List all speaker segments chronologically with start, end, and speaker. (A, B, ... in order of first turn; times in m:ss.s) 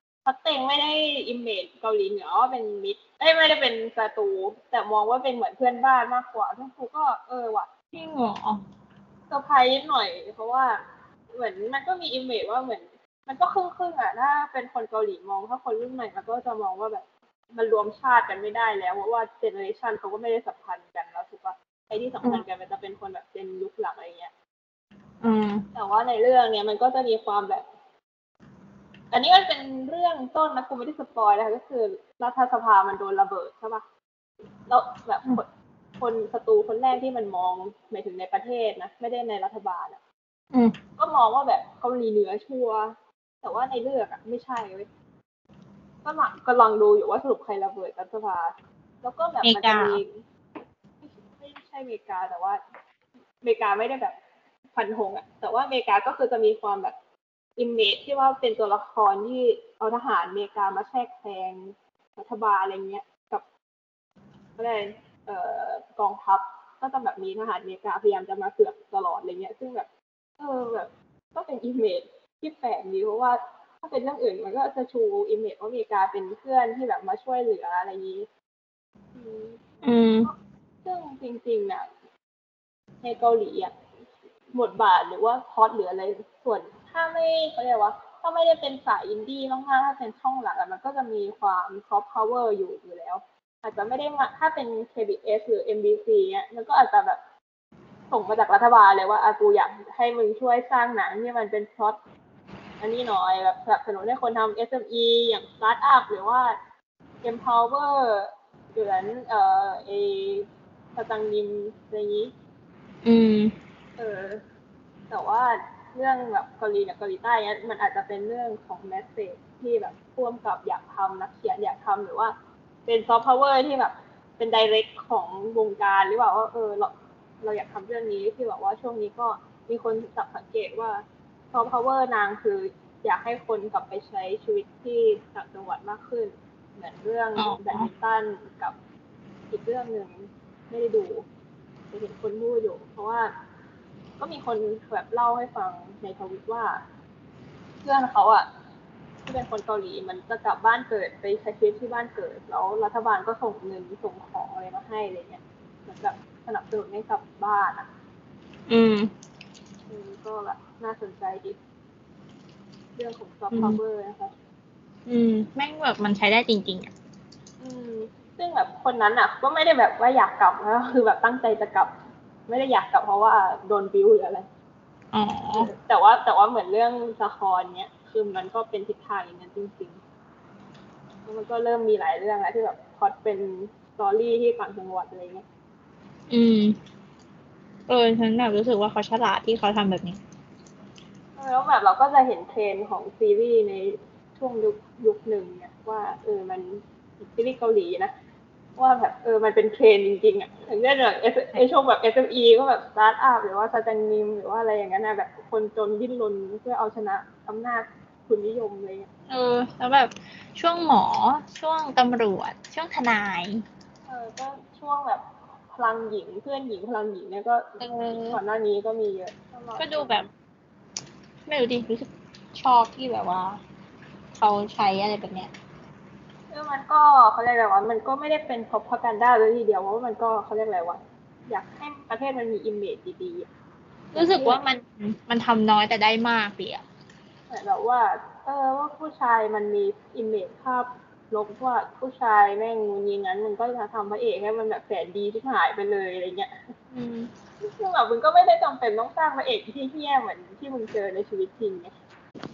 0:00.2-0:07.7 A
0:07.9-0:08.6 B
0:09.3-0:10.8 A
0:11.3-0:24.3 A
0:25.2-0:25.6 B
0:25.7-0:27.6 A
0:29.1-0:33.8 A
0:34.7-0:40.0 A
0:41.0-0:44.9 A
0:46.0-0:50.1 A
0:49.4-0:50.0 B
0:51.0-0:52.6 A
0:53.4-0:54.1 A
0:54.7-0:57.0 A
0:57.6-1:03.4 A
1:04.6-1:09.9 A
1:10.4-1:18.3 A
1:19.1-1:19.7 A
1:19.8-1:20.3 B
1:20.2-1:21.8 A
1:23.0-1:23.7 A
1:24.5-1:37.2 A
1:38.1-1:42.0 A
1:42.8-1:46.6 A
1:47.2-1:52.3 A
1:53.0-1:53.5 B
1:54.0-1:54.4 A
1:55.1-2:02.3 A
2:02.8-2:18.8 A
2:17.4-2:17.9 B
2:19.5-2:21.2 A
2:21.9-2:23.3 A
2:24.2-2:26.8 A
2:27.8-2:28.5 A
2:29.2-2:37.9 A
2:38.7-2:39.1 B
2:39.9-2:41.6 A
2:43.0-2:44.3 A
2:43.5-2:43.8 B
2:45.1-2:46.9 B
2:47.6-2:51.9 A
2:52.5-2:54.4 A
2:55.1-2:55.7 B
2:55.5-3:00.0 A
3:01.2-3:05.4 A
3:06.3-3:06.8 B
3:07.9-3:10.2 B
3:11.4-3:18.1 A
3:18.8-3:29.1 A
3:29.3-3:33.6 B
3:34.1-3:40.3 A
3:37.8-3:38.4 B
3:39.8-3:40.3 B
3:41.5-3:43.6 B
3:44.3-3:45.5 B
3:46.5-3:53.5 A
3:54.1-3:54.6 A
3:54.1-3:56.8 B
3:57.5-4:06.5 A
4:06.9-4:07.3 B
4:07.6-4:11.9 A